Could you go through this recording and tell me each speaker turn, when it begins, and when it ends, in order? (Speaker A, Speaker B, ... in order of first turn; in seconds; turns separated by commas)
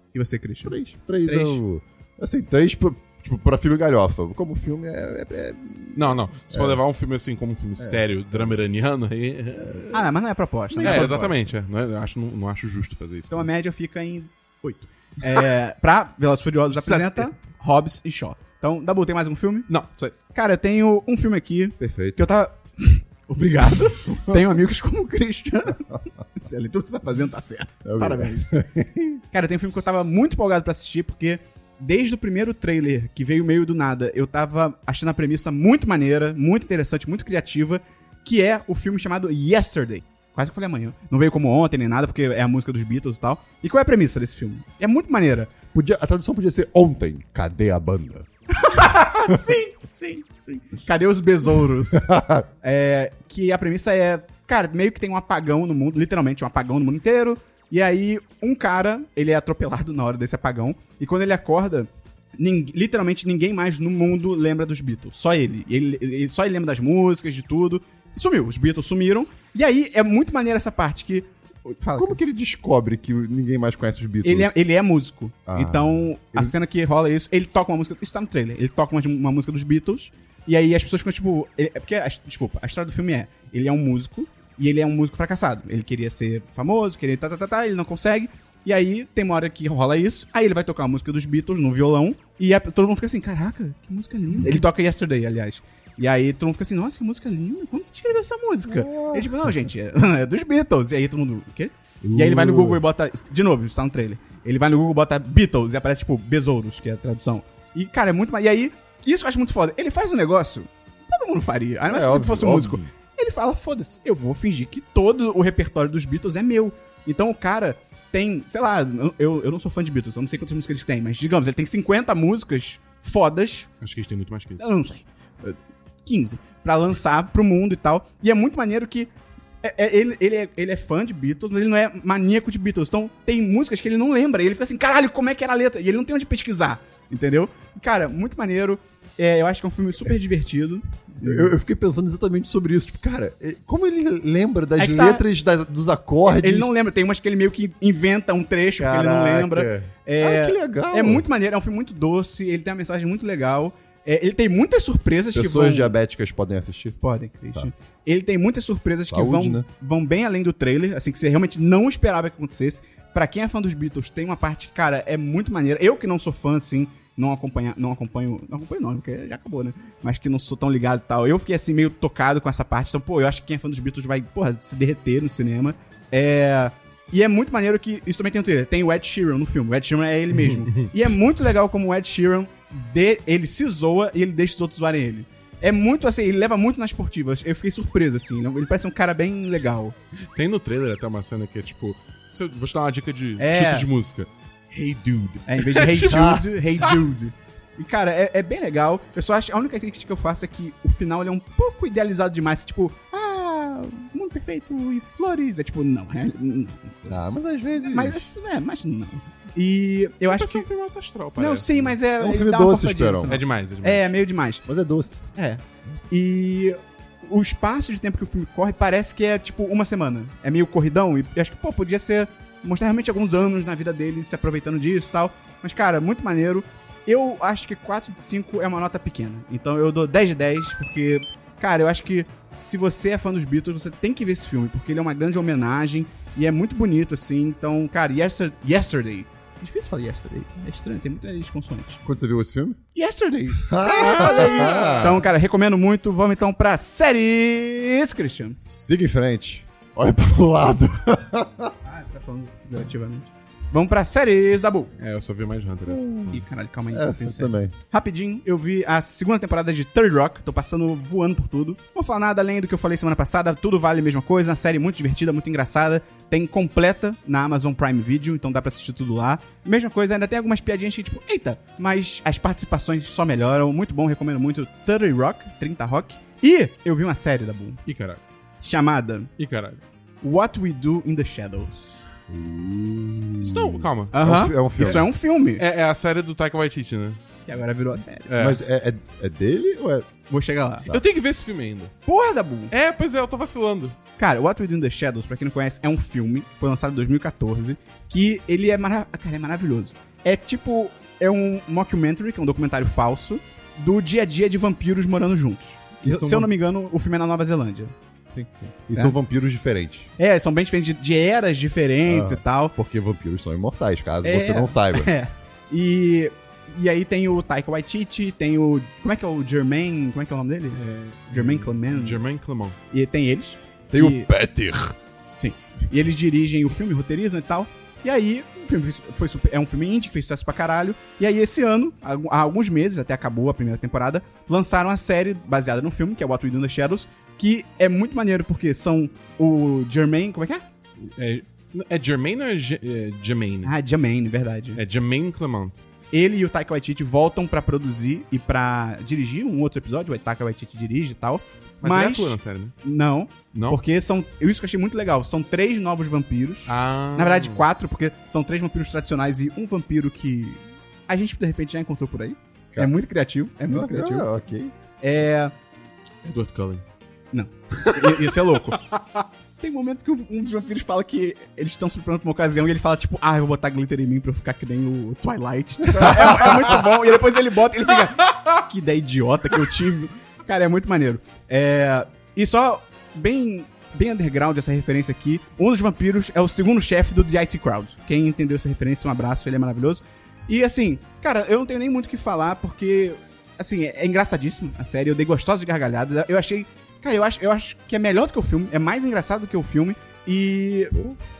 Speaker A: 0.1-1.6, Speaker B: 0.6-6.8, Speaker C: 5.9-10.1, Speaker B: 7.8-8.6, Speaker B: 9.6-9.9, Speaker A: 9.9-11.3, Speaker B: 10.7-11.3, Speaker C: 10.8-13.5, Speaker A: 13.3-19.7, Speaker C: 16.7-17.3, Speaker C: 19.7-20.2, Speaker A: 20.2-28.6, Speaker B: 21.8-22.2, Speaker B: 27.8-29.2, Speaker A: 29.3-45.5, Speaker B: 45.7-48.3, Speaker A: 48.5-52.1, Speaker B: 51.9-52.5, Speaker A: 52.6-72.2, Speaker B: 71.9-74.6, Speaker A: 74.2-123.7, Speaker B: 75.5-76.5, Speaker B: 98.7-99.5, Speaker B: 102.0-102.8, Speaker B: 111.9-112.9, Speaker C: 123.8-124.6, Speaker A: 124.6-141.5, Speaker B: 141.2-146.7, Speaker A: 144.8-145.2, Speaker A: 146.2-155.9, Speaker B: 148.8-151.2, Speaker B: 155.3-157.0, Speaker A: 157.0-189.9, Speaker B: 159.1-159.7, Speaker C: 180.3-180.9, Speaker C: 190.3-197.0, Speaker A: 193.4-193.9, Speaker A: 195.5-207.2, Speaker B: 196.0-196.4, Speaker B: 207.1-208.3, Speaker A: 207.8-210.7, Speaker C: 210.3-212.0, Speaker A: 211.4-214.6, Speaker B: 212.2-213.4, Speaker C: 213.3-214.1, Speaker B: 214.6-215.2, Speaker A: 215.3-242.0, Speaker B: 242.0-242.8, Speaker A: 242.9-248.6, Speaker B: 243.6-245.2, Speaker C: 244.0-245.2, Speaker B: 248.6-251.7, Speaker A: 251.8-254.9, Speaker C: 255.0-256.4, Speaker B: 255.9-256.4, Speaker A: 256.3-277.8, Speaker B: 256.9-257.7, Speaker C: 277.9-278.2, Speaker A: 278.6-279.3, Speaker C: 279.4-279.8, Speaker A: 280.2-282.1, Speaker B: 282.3-285.1, Speaker C: 283.4-284.1, Speaker A: 284.1-285.6, Speaker C: 284.8-285.1, Speaker C: 285.6-287.2, Speaker A: 287.4-288.3, Speaker C: 288.3-288.6, Speaker B: 288.4-290.1, Speaker A: 290.3-290.9, Speaker C: 290.9-291.9, Speaker A: 292.1-292.7, Speaker C: 292.7-293.9, Speaker A: 294.2-307.9, Speaker C: 306.0-306.5, Speaker C: 308.3-308.7, Speaker B: 308.9-310.1, Speaker A: 310.2-312.7, Speaker B: 312.1-315.1, Speaker A: 314.2-322.2, Speaker C: 320.7-322.8, Speaker A: 322.9-324.3, Speaker B: 323.9-324.9, Speaker A: 325.3-340.6, Speaker C: 341.0-343.7, Speaker A: 343.6-344.8, Speaker C: 344.8-345.8, Speaker A: 346.1-364.3, Speaker C: 351.8-352.7, Speaker C: 353.5-353.8, Speaker C: 356.7-357.6, Speaker B: 363.7-364.7, Speaker A: 365.0-365.5, Speaker C: 366.2-366.8, Speaker A: 367.3-368.8, Speaker C: 367.7-369.0, Speaker A: 369.6-400.9, Speaker C: 376.0-376.5, Speaker C: 378.1-378.4